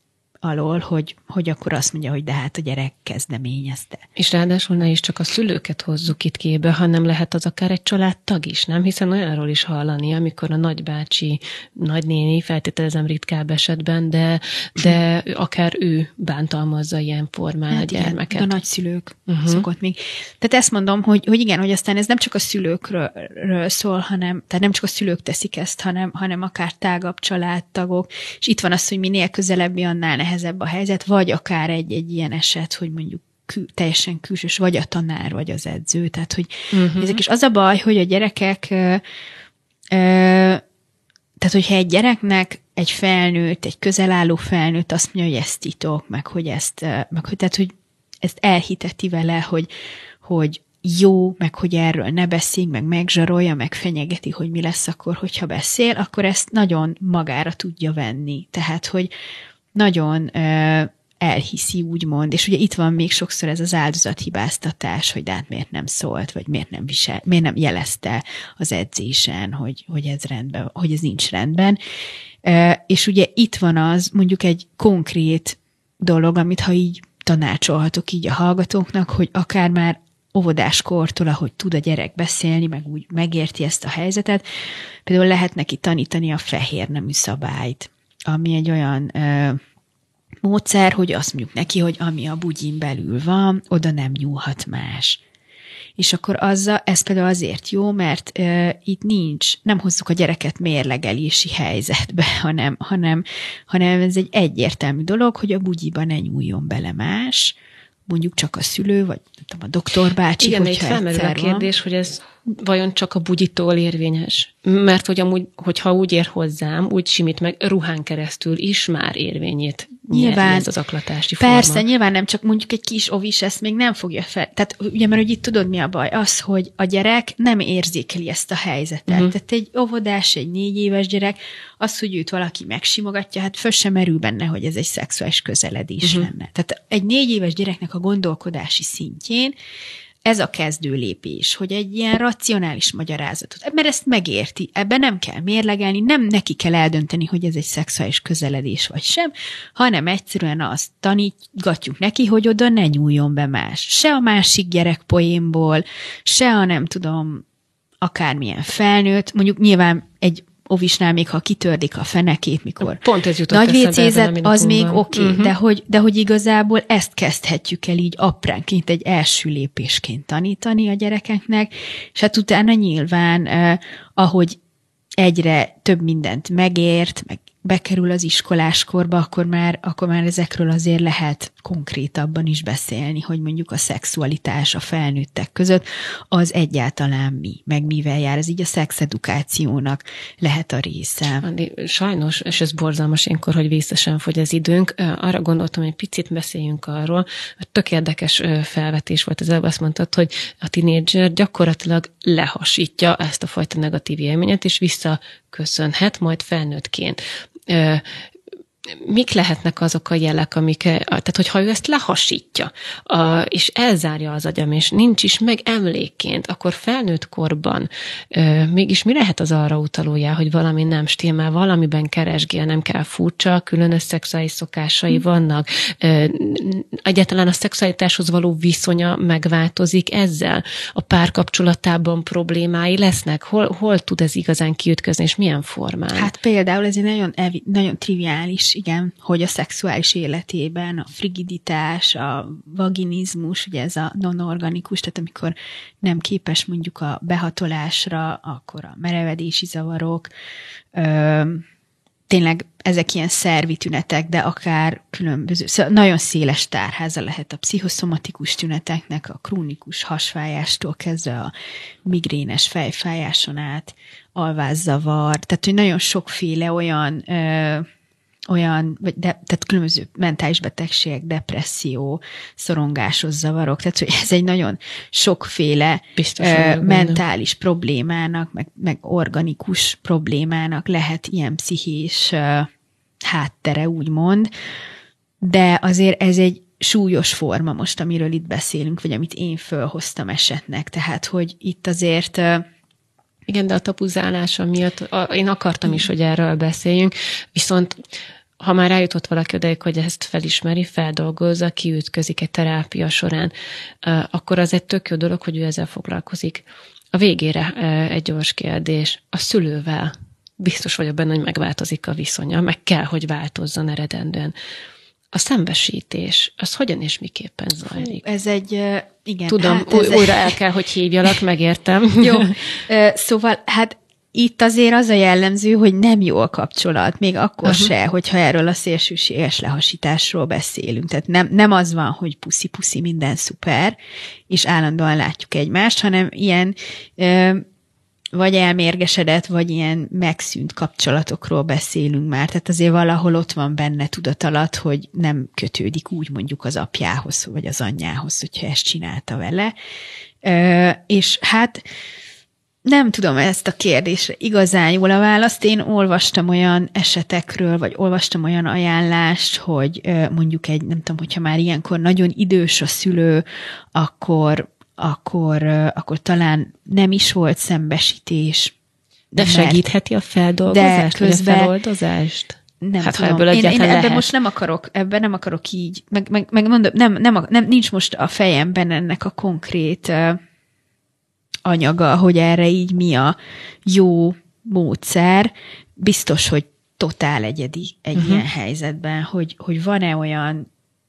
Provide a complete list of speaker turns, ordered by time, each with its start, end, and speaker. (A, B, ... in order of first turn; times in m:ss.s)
0:00.4-0:04.0 A
0:04.2-0:18.5 B
0:17.7-0:39.0 A
0:19.3-0:19.6 B
0:36.7-0:37.2 B
0:39.9-0:40.6 A
0:41.4-0:49.7 A
0:50.2-0:59.1 A
0:59.7-1:11.8 A
1:12.4-1:24.4 A
1:25.0-1:29.6 A
1:30.4-1:35.2 A
1:36.0-1:47.6 A
1:48.1-1:51.7 A
1:50.4-2:01.8 B
2:00.1-2:00.7 A
2:01.4-2:19.5 A
2:09.1-2:09.3 B
2:16.0-2:16.3 B
2:20.2-2:37.4 A
2:38.0-2:54.6 A
2:42.8-2:45.5 B
2:55.2-3:11.4 A
3:11.4-3:28.2 B
3:28.9-3:56.3 B
3:56.1-4:10.3 A
4:10.9-4:11.6 A
4:12.3-4:21.5 A
4:22.0-4:27.9 A
4:28.5-4:42.7 A
4:36.2-4:37.2 B
4:43.2-4:44.5 A
4:45.4-4:52.6 A
4:53.5-4:58.0 B
4:58.6-5:03.5 B
5:04.0-5:14.5 B
5:15.3-5:18.2 B
5:17.9-5:20.6 A
5:19.5-5:22.5 B
5:22.2-5:34.0 A
5:27.6-5:27.9 B
5:34.5-5:37.6 A
5:38.3-5:49.7 A
5:50.4-5:51.8 A
5:52.8-6:08.7 A
6:09.3-6:09.9 A
6:09.4-6:14.3 B
6:10.7-6:11.7 A
6:12.8-6:20.4 A
6:21.6-6:23.3 A
6:23.9-6:30.7 A
6:28.2-6:28.4 B